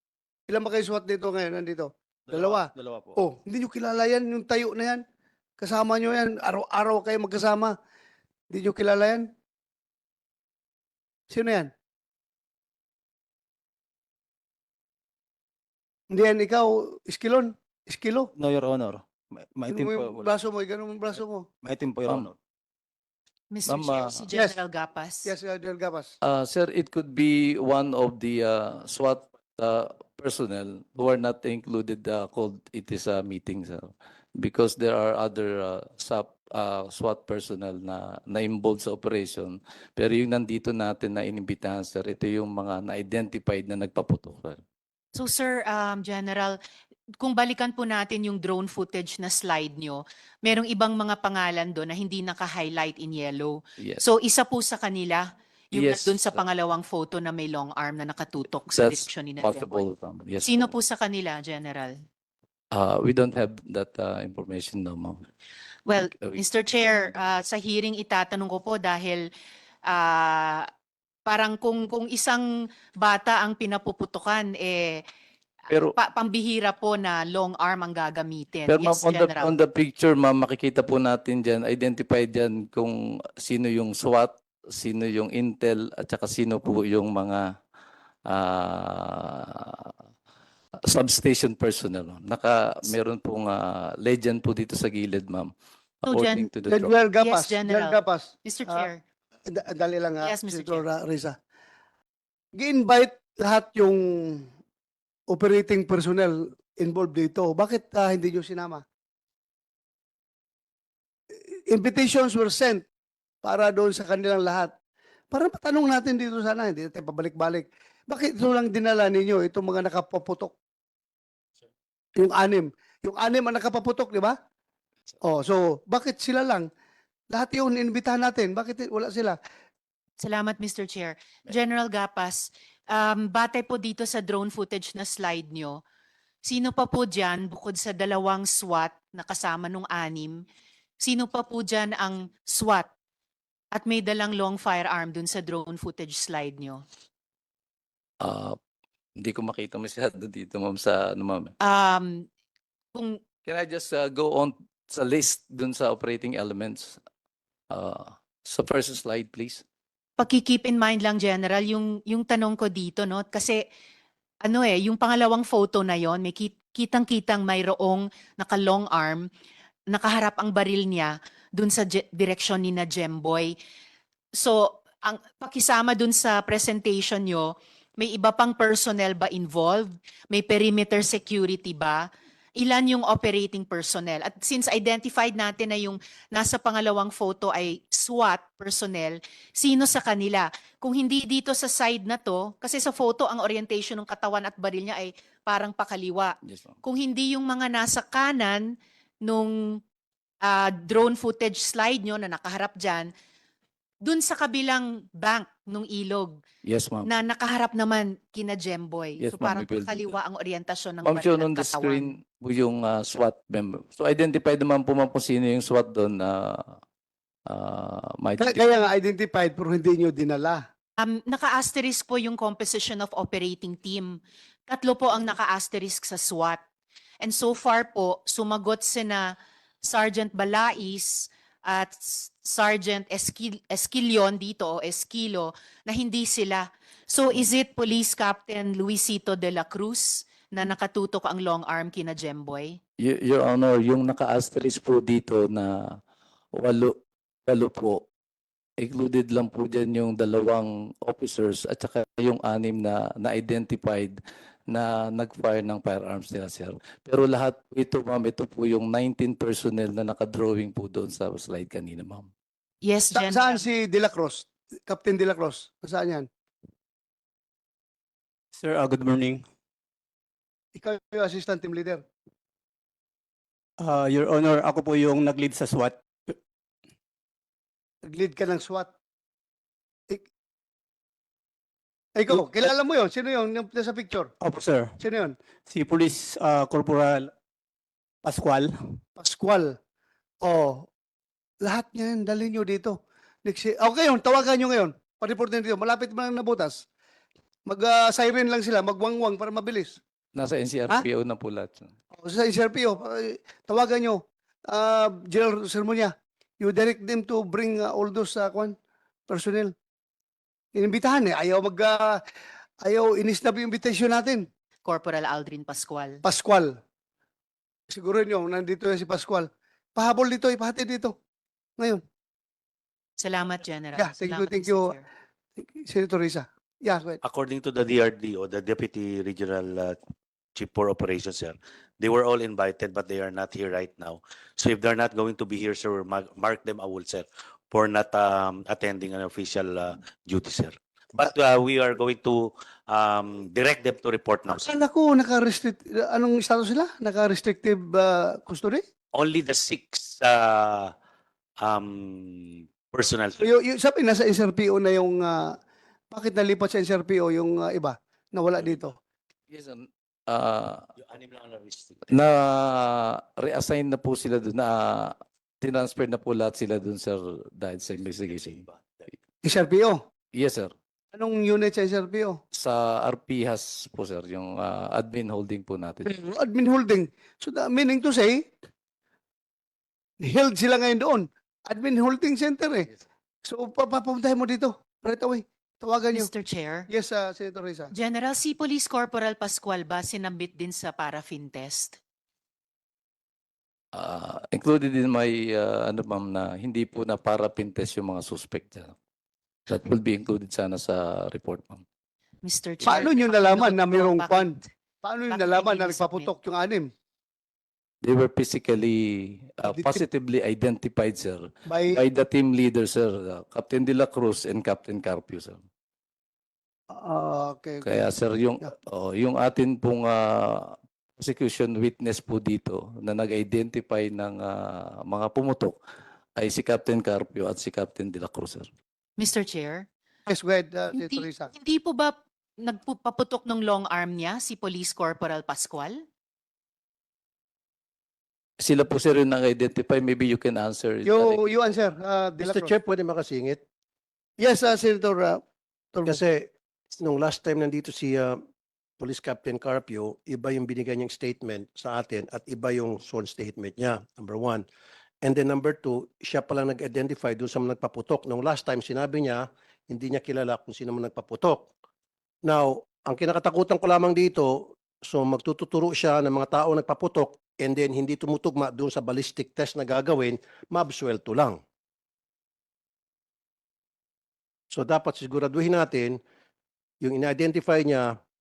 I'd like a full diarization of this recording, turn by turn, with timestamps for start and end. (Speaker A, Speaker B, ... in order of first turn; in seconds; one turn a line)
Speaker A: 0.5-5.0
Speaker B: 2.3-3.2
Speaker A: 5.6-7.8
Speaker A: 8.5-9.3
Speaker A: 11.3-11.7
Speaker A: 16.1-18.3
Speaker B: 18.4-20.2
Speaker A: 19.7-21.5
Speaker B: 21.6-22.4
Speaker C: 23.5-25.3
Speaker D: 23.7-24.2
Speaker A: 25.2-26.1
Speaker D: 26.2-44.6
Speaker C: 45.1-46.6
Speaker C: 47.2-59.9
Speaker D: 55.8-56.4
Speaker D: 58.7-60.7
Speaker C: 60.5-62.0
Speaker D: 62.7-65.3
Speaker C: 65.9-69.3
Speaker C: 69.9-70.7
Speaker C: 71.3-72.4
Speaker C: 73.0-75.0
Speaker D: 75.7-76.0
Speaker C: 75.9-79.6
Speaker D: 78.7-87.5
Speaker D: 88.3-89.9
Speaker D: 90.8-95.5
Speaker C: 96.1-96.5
Speaker D: 96.1-96.9
Speaker A: 96.7-98.9
Speaker C: 97.2-99.0
Speaker A: 99.5-101.4
Speaker C: 100.2-100.8
Speaker A: 102.5-104.5
Speaker A: 105.3-108.8
Speaker A: 111.3-112.9
Speaker A: 113.4-114.7
Speaker A: 115.3-120.5
Speaker A: 122.2-124.4
Speaker A: 125.2-126.7
Speaker A: 127.3-129.4
Speaker C: 130.2-135.8
Speaker C: 136.4-140.4
Speaker C: 141.0-142.9
Speaker C: 143.7-146.8
Speaker D: 148.2-148.6
Speaker D: 149.2-151.5
Speaker C: 151.6-152.3
Speaker C: 152.9-153.2
Speaker D: 153.4-157.0
Speaker D: 157.7-159.6
Speaker C: 160.2-163.7
Speaker C: 164.4-169.3
Speaker C: 169.9-173.6
Speaker C: 174.3-199.8
Speaker D: 196.5-196.7
Speaker C: 200.4-203.1
Speaker C: 204.0-206.4
Speaker D: 206.7-207.1
Speaker C: 207.1-212.1
Speaker D: 209.2-210.1
Speaker D: 211.1-216.8
Speaker D: 217.5-218.7
Speaker A: 218.4-220.6
Speaker C: 221.0-226.6
Speaker C: 227.2-242.8
Speaker D: 243.0-246.0
Speaker D: 246.6-248.0
Speaker D: 248.8-254.2
Speaker D: 254.7-262.3
Speaker C: 262.9-263.6
Speaker A: 263.1-266.3
Speaker E: 268.6-269.4
Speaker A: 270.8-272.0
Speaker E: 273.8-276.3
Speaker A: 278.1-278.9
Speaker A: 282.1-284.3
Speaker E: 282.3-282.7
Speaker E: 284.4-284.9
Speaker A: 285.0-285.4
Speaker E: 285.7-287.3
Speaker E: 288.2-289.0
Speaker A: 289.2-289.8
Speaker A: 290.4-290.9
Speaker A: 291.6-296.9
Speaker A: 297.7-300.0
Speaker D: 300.4-301.9
Speaker A: 302.1-308.8
Speaker A: 309.3-309.7
Speaker A: 310.8-312.2
Speaker A: 312.8-314.5
Speaker C: 314.9-316.2
Speaker A: 316.2-316.8
Speaker A: 317.9-321.2
Speaker C: 323.2-325.1
Speaker A: 324.0-324.9
Speaker A: 325.6-327.2
Speaker F: 327.2-330.0
Speaker F: 330.6-344.8
Speaker A: 344.5-348.8
Speaker F: 349.1-350.9
Speaker F: 351.6-353.4
Speaker A: 353.4-355.6
Speaker A: 356.1-359.0
Speaker D: 359.5-360.9
Speaker F: 361.0-362.1
Speaker D: 362.1-368.6
Speaker F: 368.2-369.0
Speaker A: 369.4-370.0
Speaker D: 370.4-370.7
Speaker A: 371.1-372.4
Speaker D: 372.5-376.1
Speaker A: 376.0-378.5
Speaker A: 380.2-382.9
Speaker A: 383.4-386.3
Speaker C: 386.1-386.9
Speaker A: 386.9-387.9
Speaker C: 387.9-392.0
Speaker D: 393.9-398.9
Speaker D: 399.7-401.8
Speaker C: 402.4-404.7
Speaker A: 402.9-406.9
Speaker C: 405.3-406.3
Speaker D: 408.0-415.6
Speaker A: 409.7-410.0
Speaker A: 411.7-412.0
Speaker A: 416.9-418.1
Speaker D: 417.8-425.8
Speaker D: 426.4-428.7
Speaker C: 429.2-429.9
Speaker A: 430.3-431.5
Speaker C: 430.9-436.0
Speaker D: 438.6-441.4
Speaker A: 441.1-442.7
Speaker G: 442.4-443.6
Speaker A: 444.4-445.4
Speaker A: 445.9-446.2
Speaker G: 446.1-448.4
Speaker G: 449.0-454.6
Speaker G: 455.2-461.7
Speaker G: 462.4-471.6
Speaker G: 474.7-476.2
Speaker G: 477.0-478.2